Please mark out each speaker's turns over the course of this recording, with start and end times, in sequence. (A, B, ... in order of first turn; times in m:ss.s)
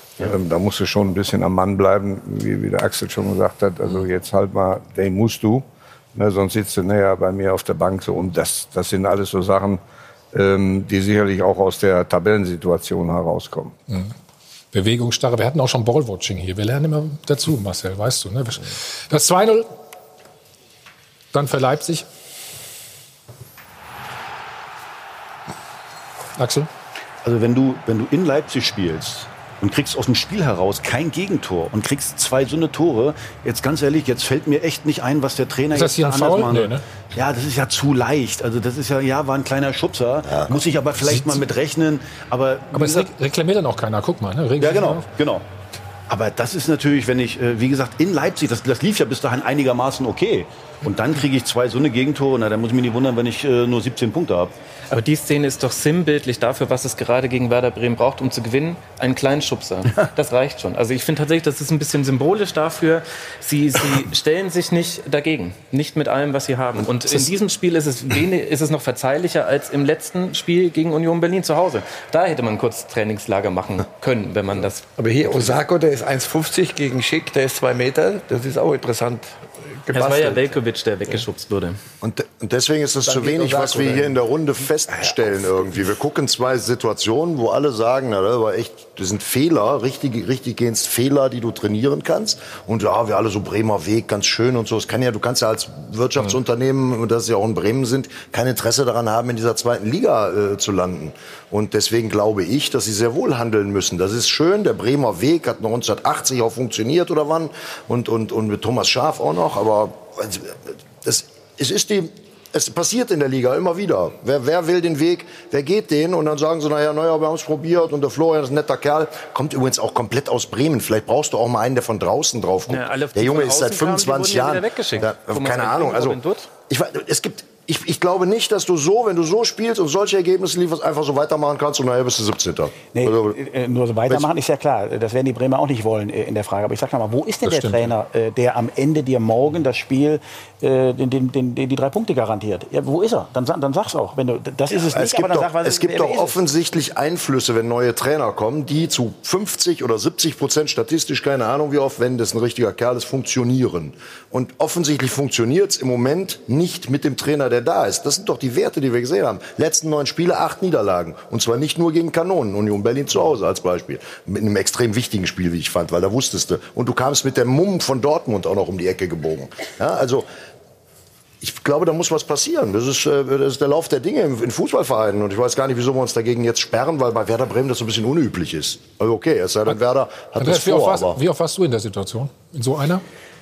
0:00.2-0:09.8 A
0:10.3-0:13.8 A
0:13.9-0:14.1 B
0:14.7-0:19.7 B
0:21.3-0:22.1 B
0:26.4-0:26.7 B
0:27.2-0:43.1 C
0:35.7-0:36.8 B
0:40.3-0:40.6 D
0:41.0-0:41.4 B
0:42.7-0:45.1 B
0:44.6-0:45.5 C
0:46.1-0:54.5 C
0:54.9-1:15.6 E
1:15.0-1:20.6 F
1:19.9-1:21.8 E
1:22.0-2:13.4 D
1:23.0-1:24.2 F
1:24.9-1:25.8 F
2:02.7-2:06.5 E
2:12.9-2:26.4 G
2:17.4-2:17.9 B
2:24.7-2:50.3 D
2:51.4-3:01.2 D
3:00.4-3:03.0 B